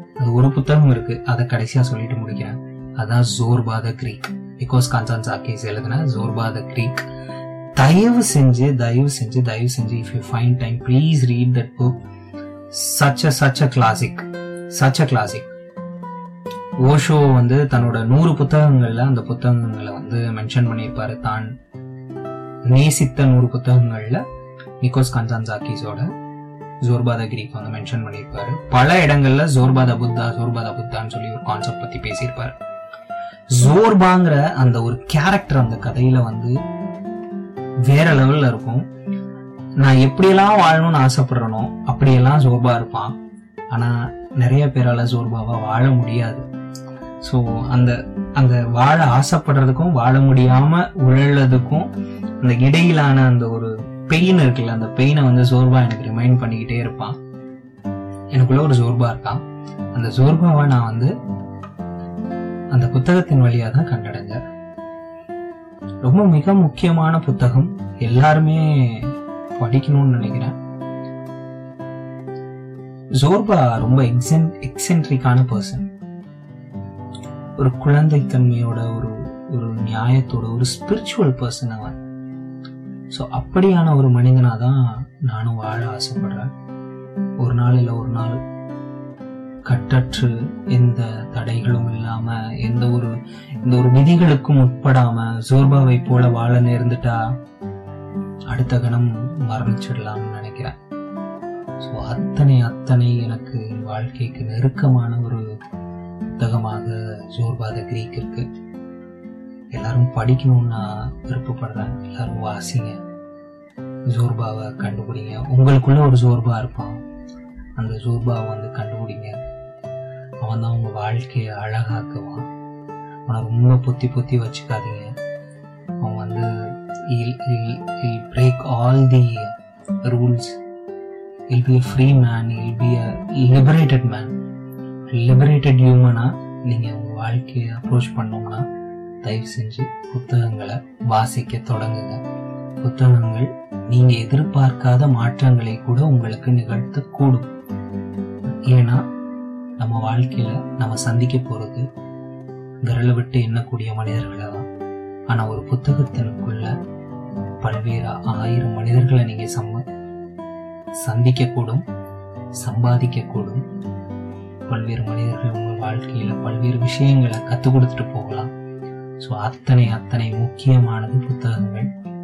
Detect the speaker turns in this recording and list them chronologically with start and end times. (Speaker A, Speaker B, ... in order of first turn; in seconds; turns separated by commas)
Speaker A: 0.2-7.0, Speaker A: 7.8-12.0, Speaker A: 12.7-15.5, Speaker A: 16.8-21.5, Speaker A: 22.7-24.2, Speaker A: 24.8-26.1, Speaker A: 26.8-32.6, Speaker A: 33.5-36.6, Speaker A: 37.9-38.8, Speaker A: 39.8-43.1, Speaker A: 43.7-46.5, Speaker A: 47.2-51.9, Speaker A: 52.4-57.2, Speaker A: 58.3-59.4, Speaker A: 59.9-61.1, Speaker A: 62.7-64.4, Speaker A: 66.0-70.5, Speaker A: 73.2-75.8, Speaker A: 77.6-82.0, Speaker A: 83.1-86.5, Speaker A: 87.4-88.4, Speaker A: 89.7-93.1, Speaker A: 93.7-97.2, Speaker A: 98.5-100.8, Speaker A: 101.8-105.4, Speaker A: 106.4-108.5, Speaker A: 109.7-113.0, Speaker A: 114.1-117.0, Speaker A: 117.8-119.3, Speaker A: 120.4-122.5, Speaker A: 123.3-125.1, Speaker A: 126.0-126.5, Speaker A: 127.1-130.6, Speaker A: 131.5-134.3, Speaker A: 135.1-138.6, Speaker A: 139.2-142.2, Speaker A: 142.8-147.5, Speaker A: 148.7-149.0, Speaker A: 149.8-151.9, Speaker A: 152.9-154.7, Speaker A: 155.3-156.7, Speaker A: 157.6-159.8, Speaker A: 161.0-161.8, Speaker A: 162.6-163.6, Speaker A: 164.7-168.5, Speaker A: 169.2-171.9